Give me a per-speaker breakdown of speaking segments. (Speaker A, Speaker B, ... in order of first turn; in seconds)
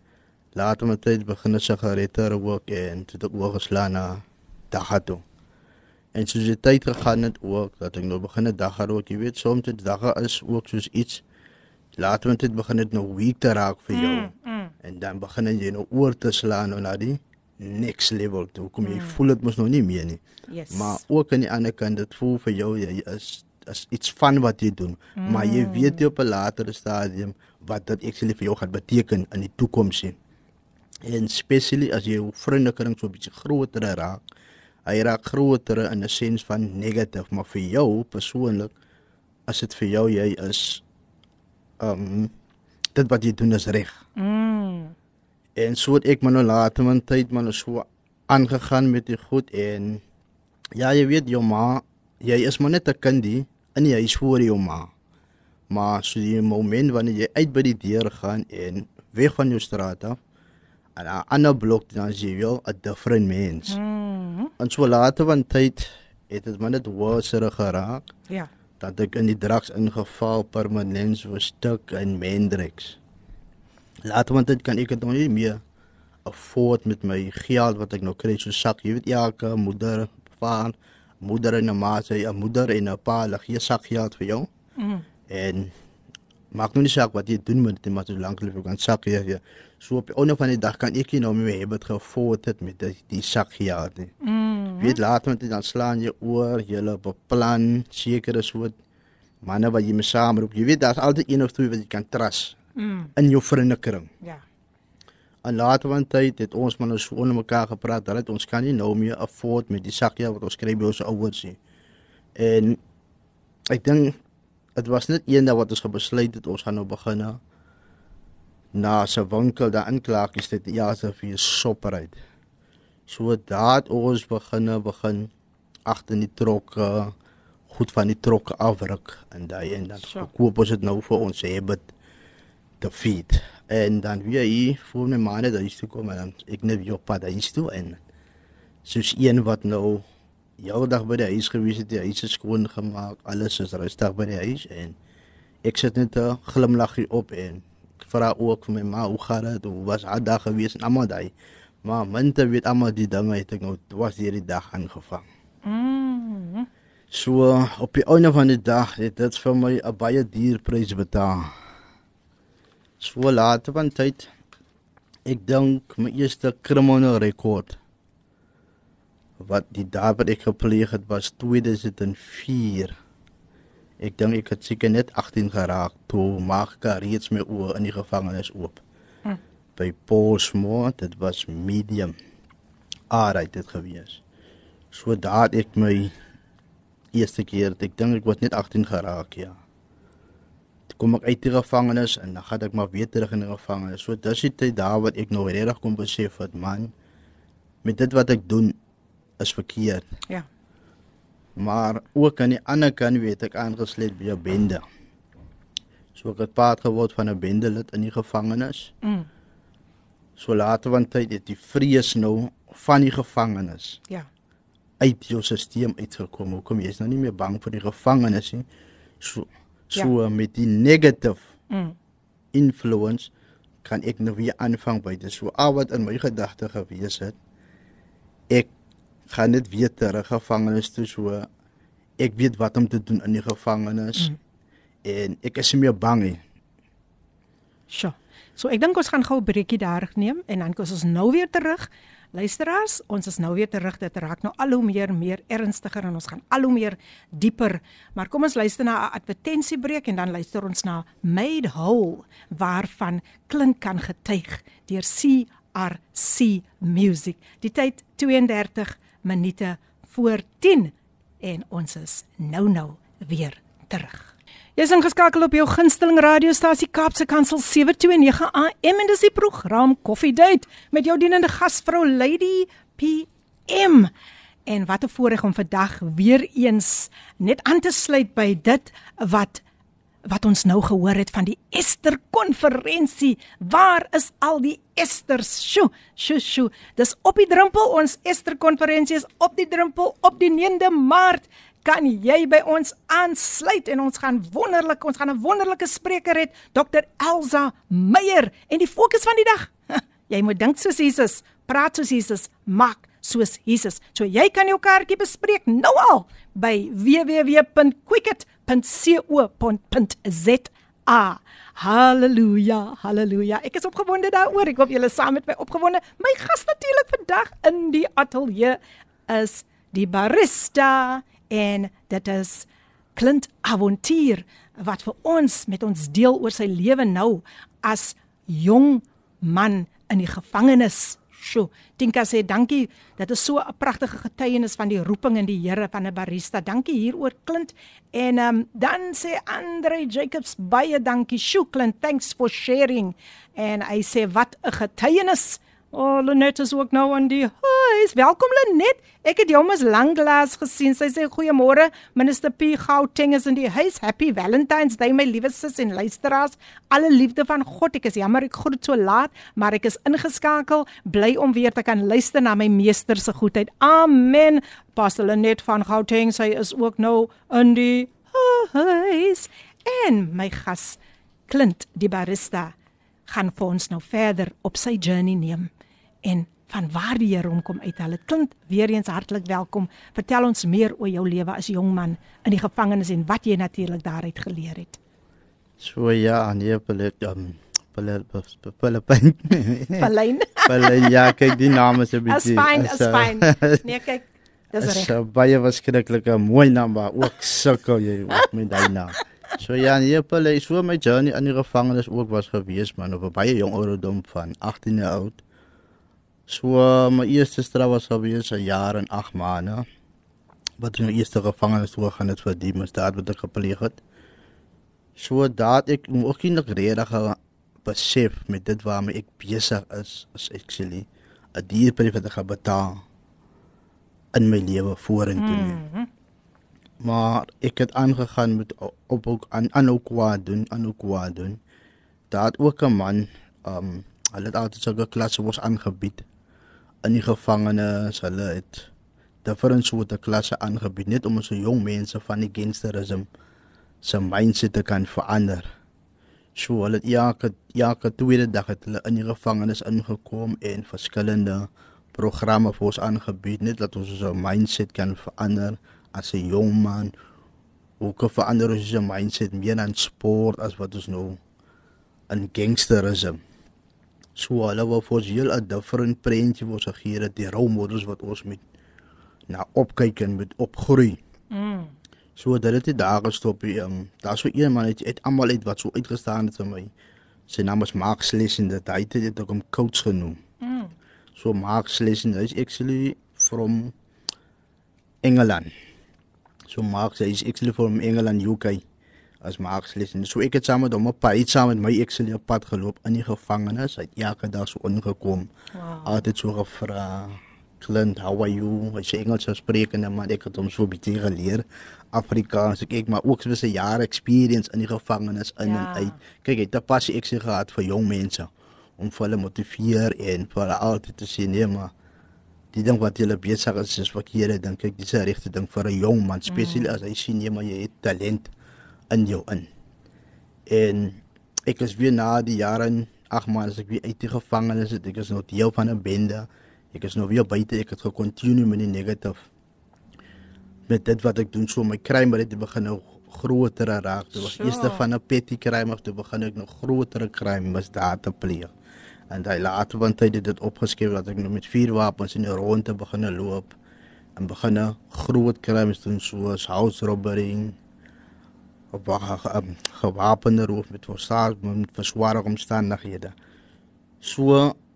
Speaker A: 0.5-5.2, 6.1-11.2, 12.0-14.3, 14.8-30.1, 31.0-34.2, 34.9-38.7, 39.5-40.8, 41.8-42.3, 42.9-44.0, 45.5-50.0, 50.8-54.9, 55.7-60.2, 61.0-63.8, 64.6-68.1, 68.8-73.0, 74.0-75.6, 76.2-84.5, 85.3-85.7, 86.5-94.1, 94.8-98.7, 99.4-102.6, 103.2-104.1, 105.4-111.6, 112.3-112.8, 113.7-114.2, 114.8-117.4, 118.7-122.2, 123.1-125.3, 125.9-127.1, 127.7-131.9, 132.8-138.0, 138.8-140.0, 140.6-144.9, 145.6-151.3, 151.8-155.2, 157.1-161.5, 163.0-164.3, 165.2-167.8, 169.4-172.9, 174.0-178.8, 179.8-182.1, 183.1-184.2, 184.9-186.1, 187.1-189.6, 190.9-196.9, 197.8-198.8, 199.4-200.1, 201.6-204.8, 206.1-208.9, 210.4-214.0, 215.0-218.6, 219.2-221.4, 222.5-223.3, 223.8-227.3, 229.3-231.5, 232.2-234.3, 235.0-236.4, 385.8-390.1, 390.6-393.8, 394.8-405.4, 406.5-409.9, 410.8-414.0, 415.2-423.0, 424.3-425.8, 427.0-431.6, 432.3-436.2, 437.0-438.9, 439.4-443.3, 444.0-445.7, 446.6-457.1, 458.0-461.4, 462.3-463.4, 464.4-468.6, 469.5-471.2, 472.4-476.9, 477.5-480.4, 481.4-483.9, 485.2-485.7, 486.7-488.8, 489.4-495.5, 496.0-511.9, 512.7-518.5, 519.1-519.7, 520.7-529.4, 530.9-538.7, 539.3-543.8, 544.4-547.8, 548.9-553.3, 554.2-554.8
Speaker B: 13.9-14.7, 18.8-19.2, 20.5-21.0, 25.2-26.0, 44.2-44.9, 63.7-64.5, 84.8-85.0, 94.2-95.0, 102.8-103.1, 130.0-130.3, 155.7-156.7, 209.0-209.3, 221.7-221.9, 237.9-274.1, 274.6-279.6, 280.2-372.7, 373.3-375.7, 376.2-385.0, 389.9-391.6, 392.2-395.1, 425.4-426.1, 471.5-471.9, 480.6-480.9, 495.7-496.2, 505.6-506.2, 516.5-516.9, 534.4-535.0